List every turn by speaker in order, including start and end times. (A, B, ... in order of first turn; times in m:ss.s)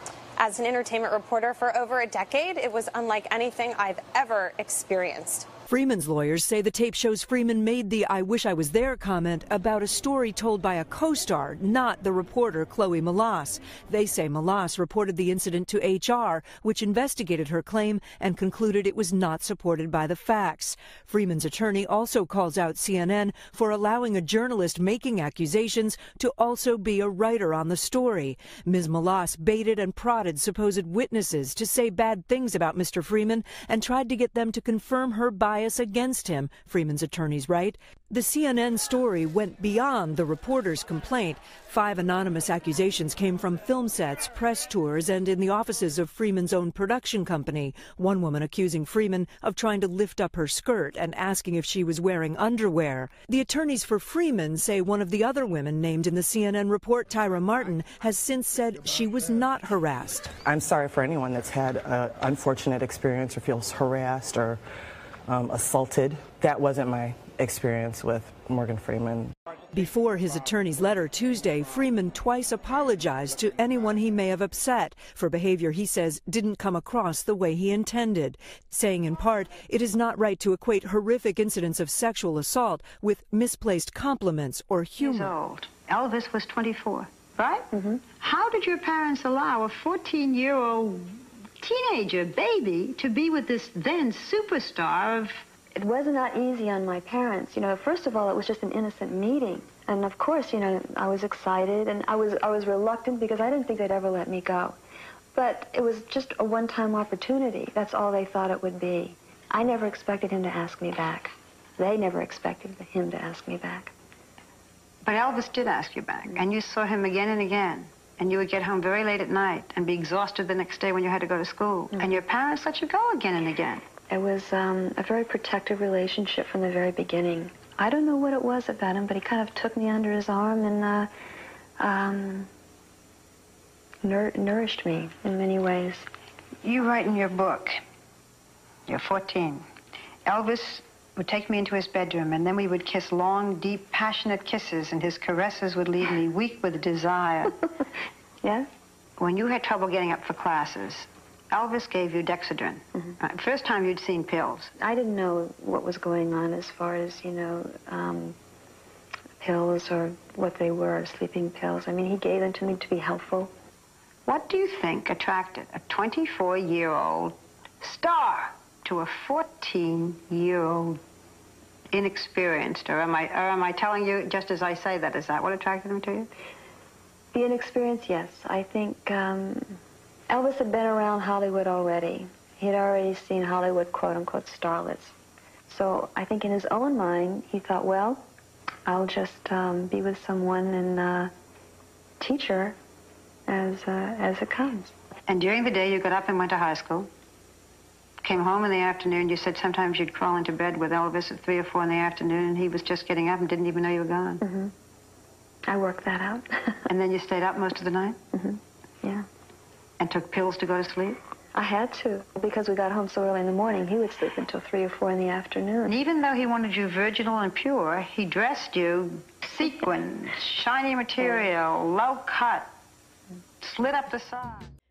0:00.4-0:05.5 A
0:05.7-1:00.3 B
1:00.4-1:04.6 C
1:05.3-1:09.3 C
1:09.7-1:25.3 B
1:25.0-1:27.7 D
1:27.7-1:28.1 E
1:28.2-1:35.4 D
1:35.8-1:44.8 E
1:45.3-1:53.9 E
1:55.0-2:03.8 D
2:01.9-2:02.2 E
2:04.1-2:11.1 E
2:11.8-2:12.5 E
2:14.0-2:16.0 E
2:16.6-2:17.8 D
2:18.9-2:19.7 D
2:20.3-2:27.6 D
2:28.4-2:28.7 E
2:29.2-2:34.7 D
2:34.8-2:38.4 E
2:39.4-2:43.5 E
2:44.3-2:51.0 D
2:51.9-2:56.3 D
2:57.3-2:59.8 E
3:00.3-3:05.1 E
3:05.7-3:08.3 E
3:08.9-3:11.3 E
3:12.2-3:12.8 E
3:13.5-3:14.9 E
3:15.3-3:17.1 D
3:18.2-3:24.4 D
3:24.4-3:24.7 E
3:25.7-3:26.8 E
3:26.9-3:28.2 D
3:28.3-3:29.3 E
3:30.0-3:31.2 D
3:31.6-3:36.0 E
3:35.9-3:42.7 D
3:43.6-3:44.7 D